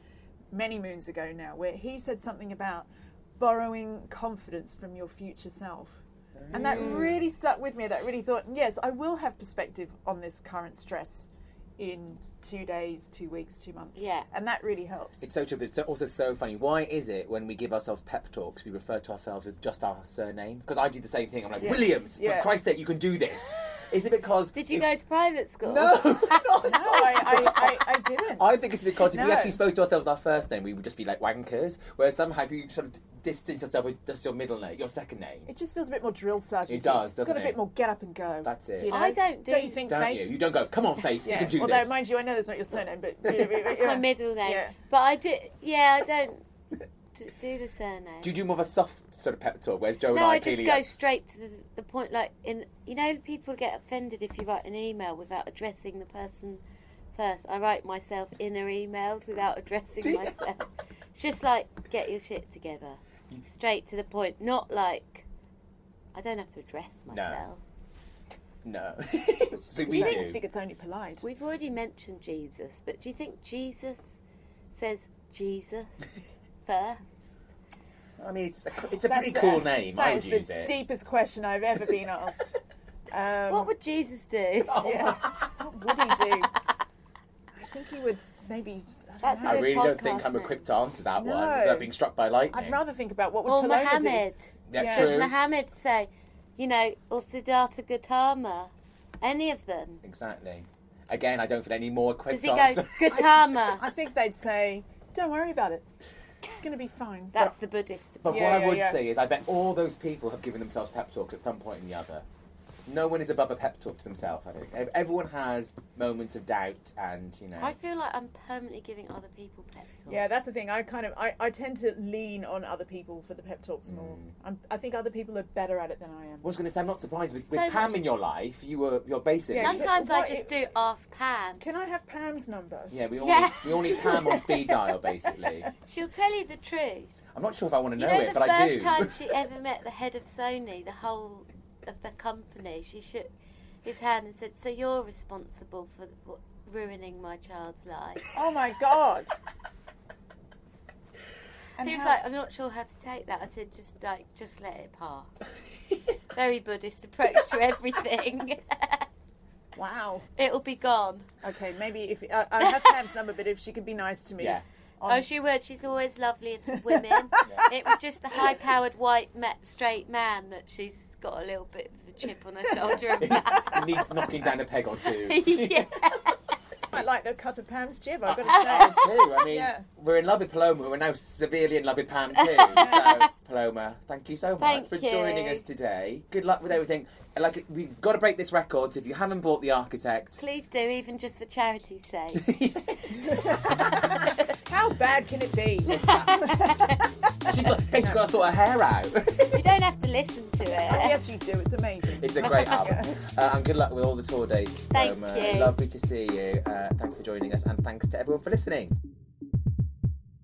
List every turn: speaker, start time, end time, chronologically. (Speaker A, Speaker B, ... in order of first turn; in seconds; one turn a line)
Speaker A: 0.5-15.3
Speaker B: 6.4-7.2
Speaker C: 6.5-7.1
Speaker C: 13.9-14.2
Speaker B: 15.2-24.9
Speaker A: 21.6-22.5
Speaker C: 24.6-26.5
Speaker B: 25.6-27.8
Speaker A: 26.6-29.6
Speaker B: 28.4-35.5
Speaker A: 35.5-40.3
Speaker B: 36.7-37.6
Speaker B: 38.4-38.9
Speaker C: 38.9-39.9
Speaker B: 39.9-42.0
Speaker A: 41.2-44.7
Speaker C: 43.6-46.4
Speaker C: 47.1-48.3
Speaker B: 48.2-50.9
Speaker C: 50.1-65.2
Speaker B: 60.0-60.4
Speaker C: 66.1-67.6
Speaker B: 67.1-67.4
Speaker B: 68.6-70.4
Speaker A: 69.7-71.3
Speaker C: 69.9-70.2
Speaker C: 71.2-77.3
Speaker B: 78.2-80.7
Speaker A: 79.0-82.6
Speaker A: 83.1-83.7
Speaker C: 83.5-84.9
Speaker B: 84.7-85.6
Speaker A: 84.8-86.5
Speaker A: 87.5-90.0
Speaker C: 89.2-90.7
Speaker B: 89.4-92.8
Speaker A: 91.2-91.9
Speaker A: 92.5-95.3
Speaker C: 93.5-100.0
Speaker B: 94.7-95.3
Speaker B: 100.0-103.4
Speaker C: 102.3-103.8
Speaker A: 103.6-105.9
Speaker A: 106.4-107.5
Speaker C: 107.3-108.7
Speaker B: 108.2-112.2
Speaker A: 108.3-109.0
Speaker B: 112.9-117.7
Speaker C: 117.6-120.3
Speaker A: 120.1-126.5
Speaker B: 123.9-124.3
Speaker B: 126.4-129.9
Speaker C: 127.5-128.0
Speaker A: 129.5-130.6
Speaker C: 129.6-131.6
Speaker A: 131.6-133.0
Speaker B: 132.9-135.7
Speaker C: 133.2-134.4
Speaker A: 133.8-134.7
Speaker C: 135.8-137.1
Speaker B: 137.3-139.2
Speaker C: 138.0-143.3
Speaker C: 143.8-148.2
Speaker A: 148.3-149.4
Speaker A: 151.8-152.2
Speaker C: 151.8-155.3
Speaker C: 156.3-159.1
Speaker A: 159.7-160.3
Speaker C: 160.4-161.3
Speaker A: 161.4-165.3
Speaker B: 164.4-164.6
Speaker C: 165.1-174.0
Speaker A: 166.8-167.6
Speaker B: 173.2-175.9
Speaker C: 175.2-176.4
Speaker A: 176.9-179.8
Speaker B: 178.3-190.4
Speaker C: 178.5-179.1
Speaker C: 182.4-183.2
Speaker A: 182.8-183.1
Speaker C: 184.6-185.6
Speaker C: 190.4-192.5
Speaker B: 192.4-194.2
Speaker C: 193.3-194.1
Speaker A: 193.4-194.0
Speaker A: 194.7-198.3
Speaker C: 195.9-197.0
Speaker B: 197.4-199.6
Speaker C: 199.5-201.2
Speaker A: 200.9-203.2
Speaker B: 202.2-208.9
Speaker C: 202.4-202.7
Speaker C: 204.9-205.7